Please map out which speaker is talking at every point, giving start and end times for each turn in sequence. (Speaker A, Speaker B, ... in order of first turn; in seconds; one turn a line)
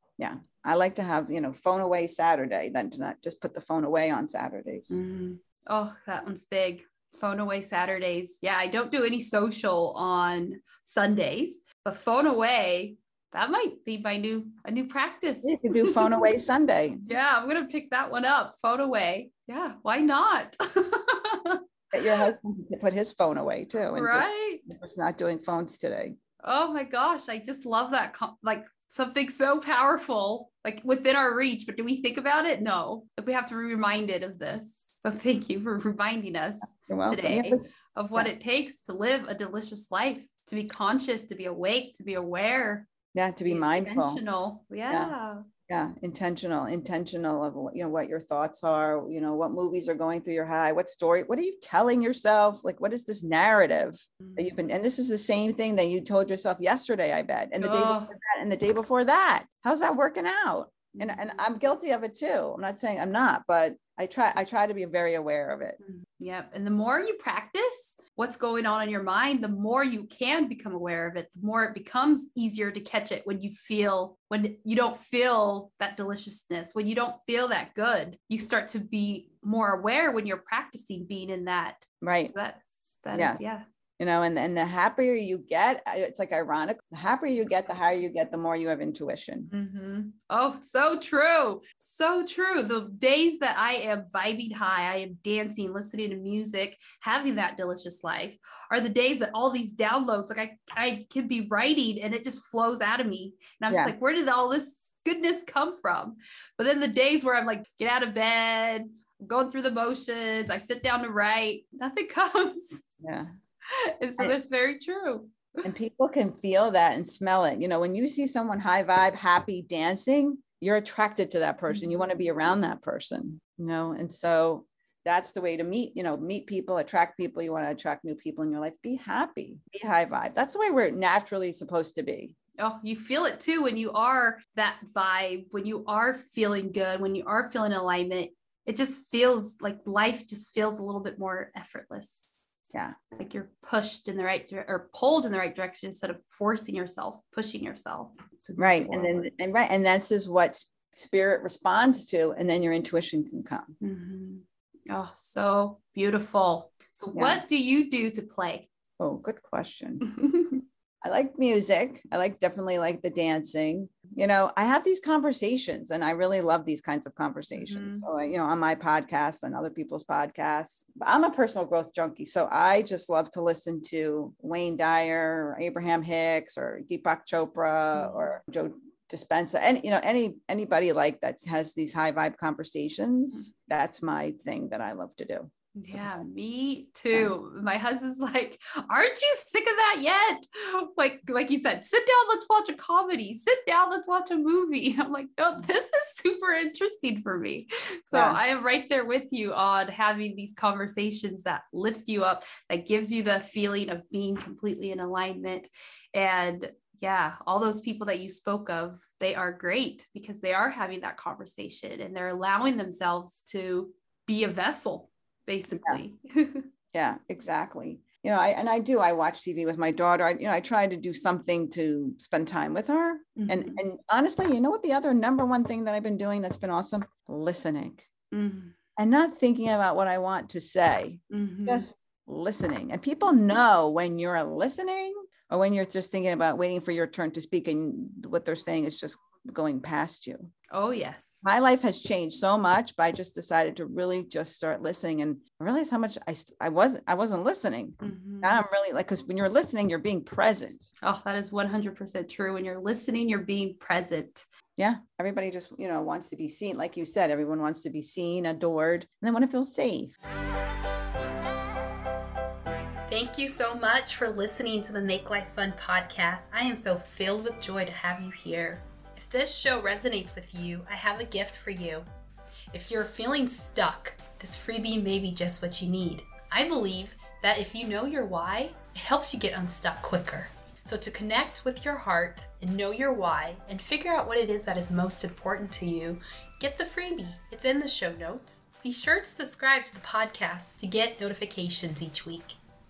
Speaker A: 0.2-5.0
Speaker B: 4.9-16.2
Speaker A: 15.4-17.1
Speaker B: 17.1-22.3
Speaker A: 21.9-26.2
Speaker B: 23.9-24.6
Speaker B: 26.4-42.9
Speaker A: 36.8-38.3
Speaker A: 43.1-44.2
Speaker B: 43.5-45.5
Speaker A: 45.7-65.8
Speaker B: 54.2-54.5
Speaker B: 57.6-58.1
Speaker B: 60.9-61.5
Speaker B: 65.8-83.7
Speaker A: 82.0-82.3
Speaker A: 83.1-83.4
Speaker A: 84.0-89.5
Speaker B: 89.5-112.9
Speaker A: 103.7-103.9
Speaker A: 113.0-113.3
Speaker B: 113.7-115.7
Speaker A: 115.6-132.4
Speaker B: 121.7-122.0
Speaker B: 132.6-142.3
Speaker B: 143.1-149.3
Speaker A: 148.6-153.7
Speaker B: 153.8-158.7
Speaker A: 157.1-157.4
Speaker A: 159.0-160.1
Speaker B: 160.0-160.6
Speaker A: 161.0-186.2
Speaker B: 167.5-168.1
Speaker B: 177.9-178.3
Speaker B: 185.8-216.7
Speaker A: 198.1-198.4
Speaker A: 216.9-228.1
Speaker B: 223.4-223.8
Speaker B: 228.3-228.8
Speaker A: 229.0-240.5
Speaker B: 231.3-231.9
Speaker B: 240.7-241.5
Speaker A: 241.4-250.9
Speaker B: 248.0-248.6
Speaker B: 251.0-254.5
Speaker A: 254.8-260.2
Speaker B: 263.1-272.1
Speaker B: 272.7-292.6